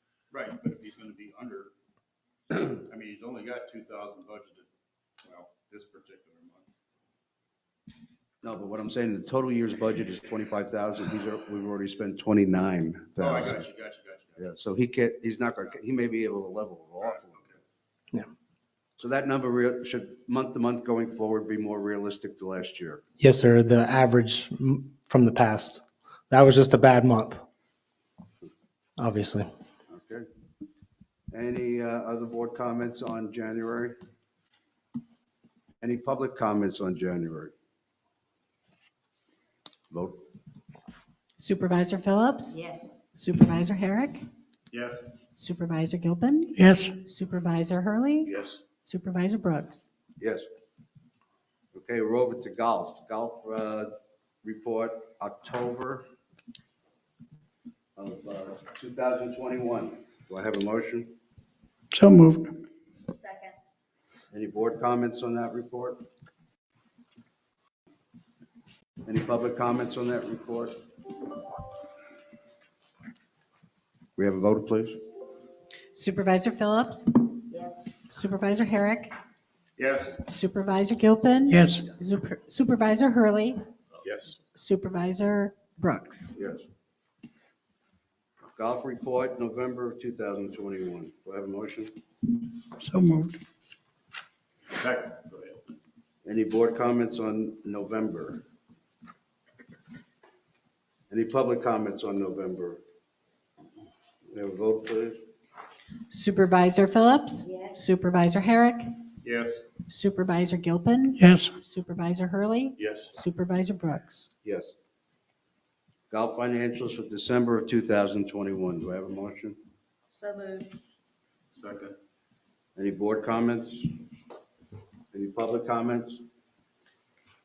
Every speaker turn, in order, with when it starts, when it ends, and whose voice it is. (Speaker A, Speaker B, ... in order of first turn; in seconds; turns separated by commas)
Speaker A: 0.3-1.7, Speaker A: 2.5-4.7, Speaker A: 5.2-6.7, Speaker B: 8.4-13.7, Speaker A: 13.2-14.5, Speaker B: 14.4-17.4, Speaker A: 17.0-17.6, Speaker B: 19.0-23.0, Speaker C: 23.2-27.4, Speaker C: 29.0-29.5, Speaker B: 29.9-30.2, Speaker B: 31.3-34.0, Speaker B: 35.8-37.5, Speaker B: 39.9-40.2, Speaker D: 41.4-44.2, Speaker E: 42.5-43.0, Speaker A: 44.7-45.2, Speaker D: 45.3-49.9, Speaker F: 46.5-46.9, Speaker A: 48.2-48.6, Speaker B: 50.2-50.5, Speaker B: 51.7-53.9, Speaker B: 54.4-56.0, Speaker B: 58.0-61.1, Speaker F: 61.9-62.5, Speaker E: 63.1-63.6, Speaker B: 64.3-66.0, Speaker B: 69.0-70.8, Speaker B: 74.2-75.0, Speaker D: 75.9-77.4, Speaker E: 77.5-78.0, Speaker D: 78.0-79.2, Speaker A: 79.8-80.2, Speaker D: 80.2-83.6, Speaker F: 81.5-81.9, Speaker A: 84.0-84.4, Speaker D: 84.5-86.4, Speaker B: 86.3-86.6, Speaker B: 88.5-91.9, Speaker F: 92.8-93.4, Speaker A: 94.8-95.7, Speaker B: 96.2-98.4, Speaker B: 101.1-102.8, Speaker B: 104.3-105.2, Speaker D: 106.1-108.9, Speaker E: 107.4-107.8, Speaker A: 109.2-109.7, Speaker D: 109.8-114.3, Speaker F: 111.2-111.5, Speaker A: 112.8-113.2, Speaker B: 114.4-114.7, Speaker B: 116.1-119.6, Speaker E: 120.1-120.7, Speaker A: 121.5-122.0, Speaker B: 122.8-124.0, Speaker B: 125.1-126.2